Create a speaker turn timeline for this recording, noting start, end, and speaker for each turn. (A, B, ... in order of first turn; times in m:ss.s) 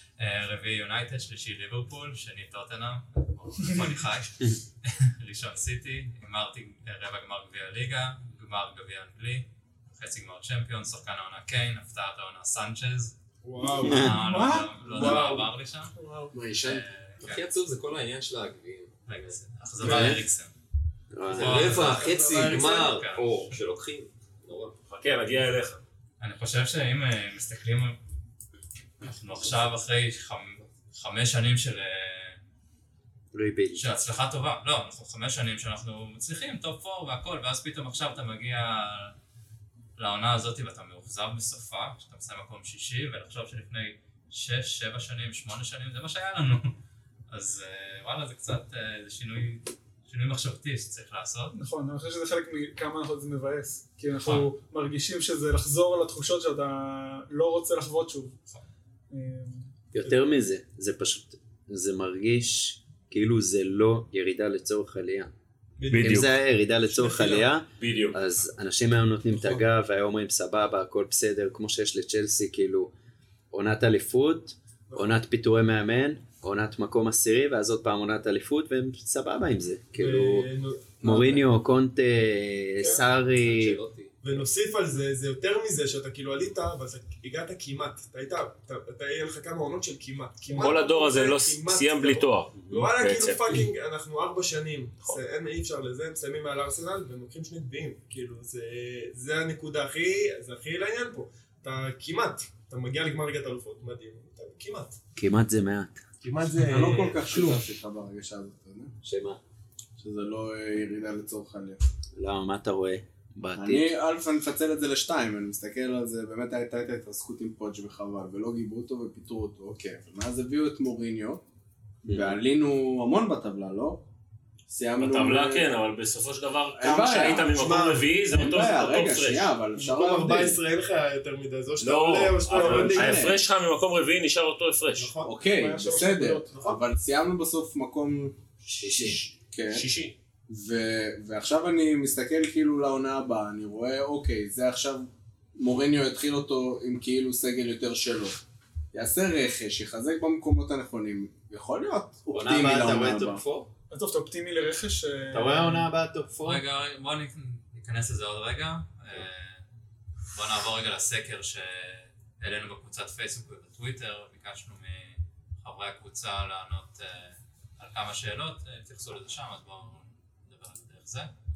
0:00.2-0:13.2 A
0:13.4-0:14.1 B
0:13.8-0:15.9 A
0:13.8-0:14.2 C
0:13.9-0:15.1 D
0:14.9-0:15.5 B
0:16.0-0:16.3 D
0:16.3-0:16.8 E
0:16.6-0:17.6 A
0:17.2-0:20.1 F
0:19.1-0:20.5 A
0:19.8-0:20.2 C
0:19.8-0:20.2 B
0:21.1-0:22.0 C
0:21.2-0:24.7 F
0:21.4-0:23.6 A
0:21.6-0:22.7 B
0:24.9-0:25.8 G
0:26.2-0:28.0 A
0:29.0-0:32.4 A
0:33.3-0:33.8 C
0:33.7-0:39.1 A
0:40.0-0:46.7 A
0:47.3-0:51.5 A
0:51.5-0:58.4 D
0:59.1-0:59.7 D
0:59.9-1:05.3 C
1:05.8-1:06.3 B
1:05.9-1:06.3 G
1:06.0-1:12.9 C
1:06.9-1:07.5 B
1:07.8-1:08.2 G
1:13.5-1:20.5 C
1:14.9-1:15.2 B
1:19.9-1:21.0 B
1:21.0-1:21.4 E
1:21.0-1:23.8 C
1:22.8-1:24.1 F
1:24.2-1:45.0 B
1:30.5-1:33.7 G
1:45.2-1:46.0 C
1:46.2-1:47.5 B
1:46.6-1:48.9 E
1:49.0-1:49.4 C
1:50.0-1:51.8 E
1:52.1-1:53.9 C
1:53.5-2:01.4 E
2:02.0-2:04.0 E
2:02.1-2:02.4 C
2:04.7-2:05.7 E
2:05.0-2:09.5 G
2:06.8-2:10.6 E
2:07.5-2:08.1 B
2:09.8-2:13.4 B
2:11.8-2:15.1 G
2:12.5-2:13.4 E
2:14.9-2:15.4 B
2:15.2-2:18.4 E
2:15.5-2:16.5 D
2:16.5-2:16.8 B
2:18.8-2:19.2 C
2:18.8-2:20.1 G
2:19.2-2:19.9 E
2:20.5-2:28.4 E
2:28.9-2:33.4 E
2:32.3-2:33.7 C
2:33.9-2:35.9 D
2:35.3-2:36.6 C
2:36.4-2:39.6 A
2:40.3-2:51.3 A